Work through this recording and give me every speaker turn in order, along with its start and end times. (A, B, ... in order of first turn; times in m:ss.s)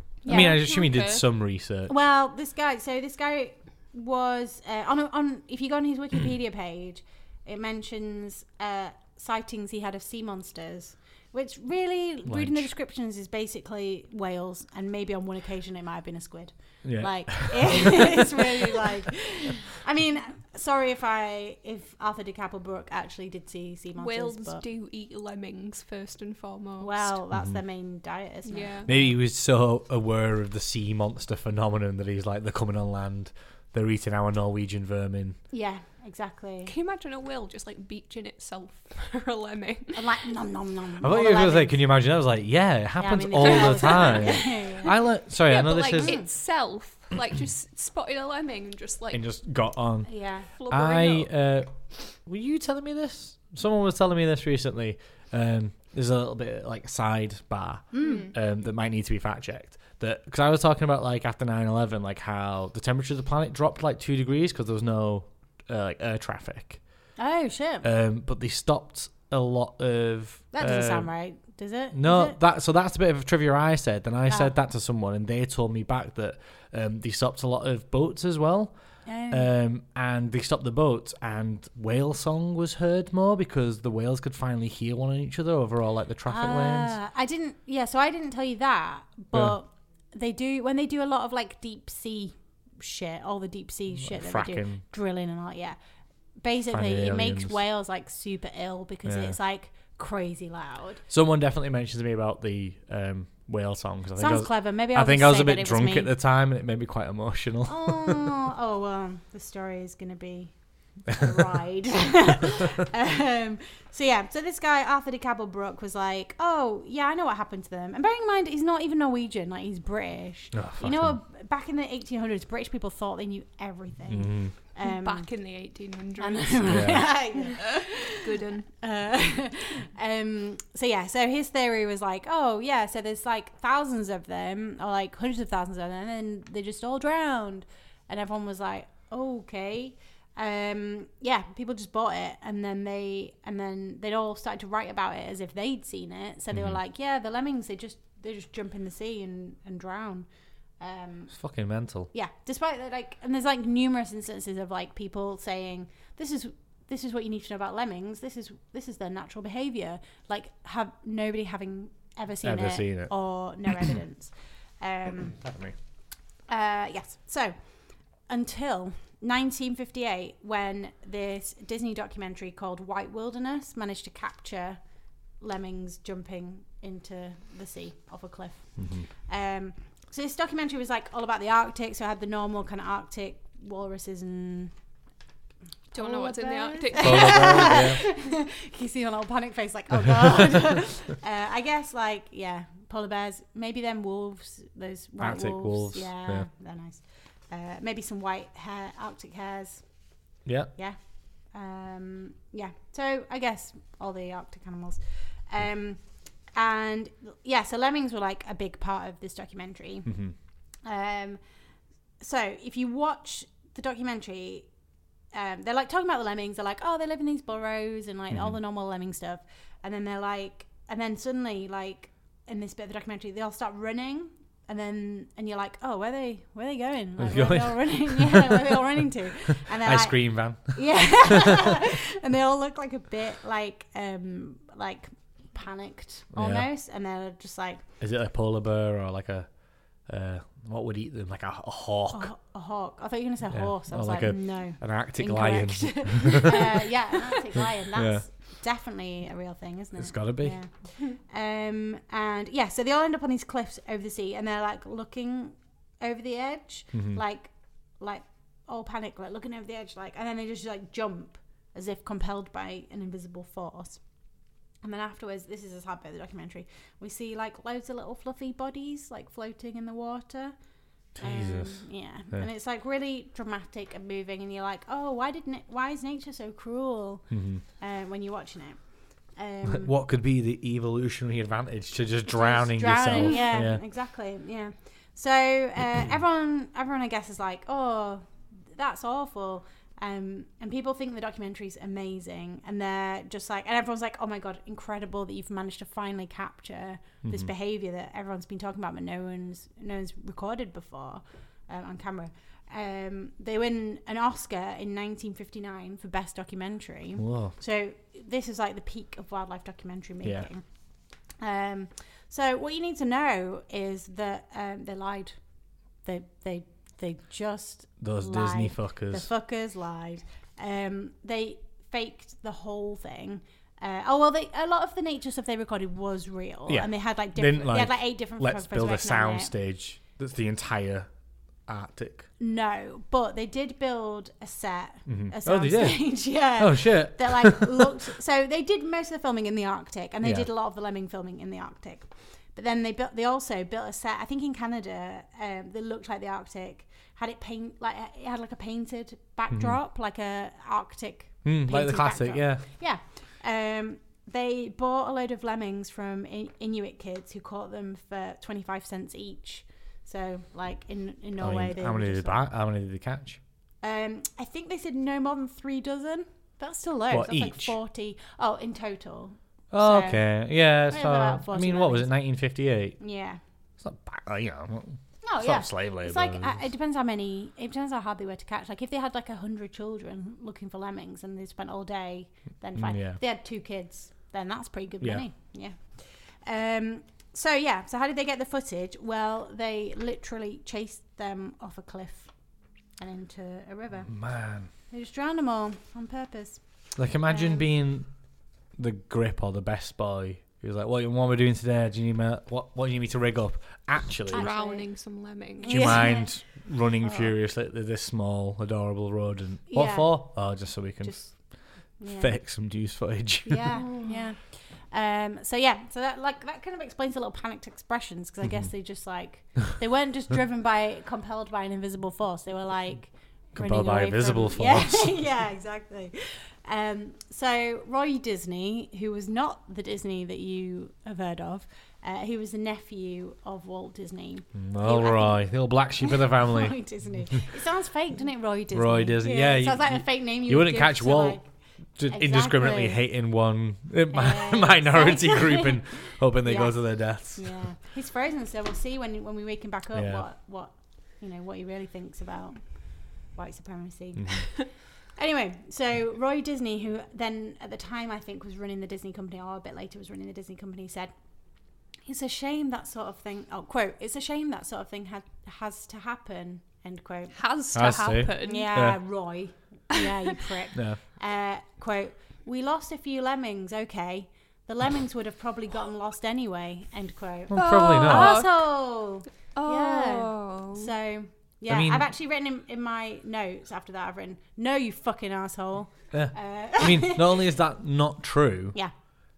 0:00.2-0:01.2 A
0:00.2-0:00.6 B
0:00.3-0:01.9 C
0:01.9-0:24.6 B
0:12.2-0:12.7 C
0:16.8-0:17.9 C
0:24.0-0:27.2 A
0:26.8-0:29.2 B
0:27.3-0:27.6 C
0:28.5-0:28.9 A
0:28.8-0:35.4 C
0:35.5-0:36.7 B
0:36.6-0:40.3 A
0:39.9-0:41.9 B
0:41.0-0:46.2 C
0:43.0-0:44.9 B
0:43.4-0:44.3 A
0:45.5-0:49.2 A
0:46.0-0:46.2 B
0:49.1-1:07.1 C
0:50.0-0:50.5 B
0:50.6-0:51.3 A
0:57.9-0:58.3 B
0:58.0-0:58.3 A
1:07.2-1:07.9 B
1:07.8-1:11.3 C
1:10.5-1:12.4 B
1:11.9-1:27.0 C
1:14.3-1:14.5 B
1:19.0-1:19.5 B
1:26.3-1:35.8 B
1:29.3-1:29.6 C
1:33.9-1:34.8 C
1:36.3-1:41.0 B
1:36.7-1:37.6 C
1:39.0-1:39.4 C
1:41.1-1:48.2 C
1:44.2-1:46.1 B
1:47.7-2:05.4 B
2:00.5-2:01.2 C
2:04.1-2:04.5 C
2:04.8-2:08.7 A
2:06.2-2:08.2 B
2:06.7-2:07.1 C
2:08.7-2:45.8 B
2:26.5-2:26.8 C
2:31.3-2:32.1 C
2:42.4-2:44.0 C
2:45.2-2:45.8 C
2:46.4-3:04.8 B
2:58.8-2:59.1 C
3:05.9-3:57.8 B
3:05.9-3:07.8 A
3:06.9-3:08.0 C
3:15.2-3:16.5 C
3:20.4-3:20.7 C
3:30.0-3:30.3 C
3:38.3-3:38.6 C
3:47.2-3:48.8 C
3:49.6-3:51.4 C
3:56.3-3:56.7 C
3:58.0-4:02.4 C
4:02.1-4:39.9 B
4:03.5-4:06.8 C
4:07.6-4:08.3 C
4:10.0-4:10.7 C
4:16.9-4:17.2 C
4:31.1-4:32.5 C
4:37.3-4:37.6 C
4:39.7-4:43.8 C
4:42.3-5:29.5 B
4:43.1-4:43.6 A
4:57.2-4:57.5 C
5:07.2-5:07.6 C
5:10.2-5:10.5 C
5:18.0-5:19.3 C
5:26.7-5:31.1 C
5:31.6-5:32.3 C
5:32.4-6:02.5 B
5:35.0-5:37.9 C
5:40.2-5:40.5 C
5:49.5-5:49.8 C
5:51.4-5:52.7 C
6:01.4-6:03.4 C
6:03.8-6:13.4 B
6:07.1-6:07.8 C
6:09.7-6:13.1 C
6:13.8-6:16.6 C
6:15.2-6:37.7 B
6:22.7-6:23.2 C
6:25.0-6:25.3 C
6:34.1-6:34.7 C
6:37.0-6:44.5 C
6:44.3-6:46.0 A
6:44.3-6:47.3 B
6:45.6-6:53.7 C
6:49.7-6:52.4 B
6:53.4-7:23.0 B
6:53.8-6:54.2 A
6:58.4-6:58.7 C
7:03.5-7:05.3 C
7:14.5-7:16.8 C
7:18.7-7:27.6 C
7:24.1-7:47.4 B
7:29.9-7:30.2 C
7:34.1-7:34.5 C
7:47.3-7:48.7 A
7:47.7-7:49.0 C
7:48.4-8:07.5 B
7:50.7-7:51.0 C
7:57.5-7:58.4 C
7:57.5-8:00.9 A
8:01.7-8:02.1 C
8:06.1-8:08.8 C